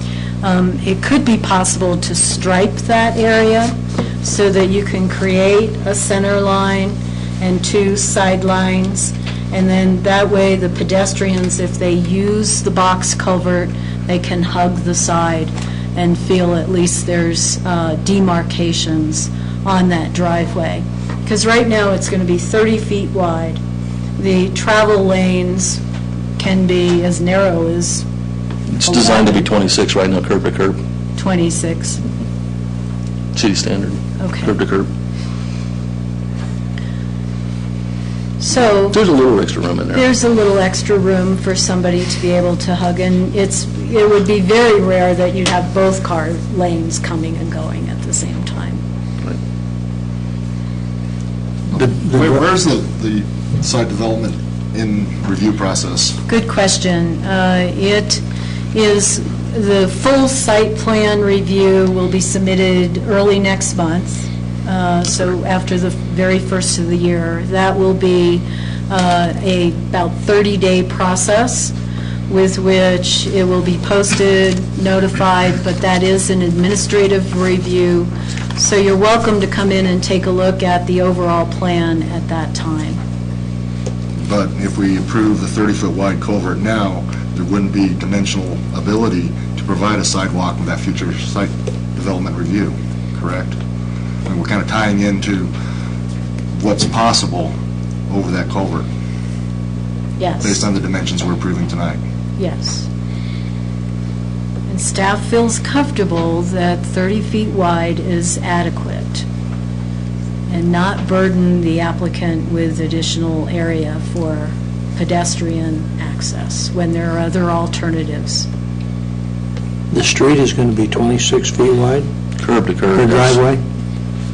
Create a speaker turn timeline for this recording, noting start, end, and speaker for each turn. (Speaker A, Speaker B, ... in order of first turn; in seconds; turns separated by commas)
Speaker A: 0.4-23.6, Speaker A: 24.2-25.8, Speaker A: 26.4-28.0, Speaker B: 28.7-30.8, Speaker A: 28.8-29.4, Speaker A: 31.1-32.0, Speaker B: 33.3-34.9, Speaker A: 34.2-34.5, Speaker A: 38.4-39.0, Speaker B: 38.7-40.1, Speaker A: 39.9-48.8, Speaker C: 51.7-56.2, Speaker D: 51.8-52.4, Speaker A: 56.3-71.7, Speaker A: 72.3-83.0, Speaker C: 84.2-93.5, Speaker C: 94.3-95.5, Speaker C: 96.5-97.5, Speaker C: 98.1-98.9, Speaker A: 100.2-100.6, Speaker C: 100.4-102.0, Speaker A: 102.4-102.9, Speaker A: 104.7-109.2, Speaker A: 110.5-118.5, Speaker D: 119.9-122.1, Speaker B: 122.4-123.4, Speaker D: 122.9-123.6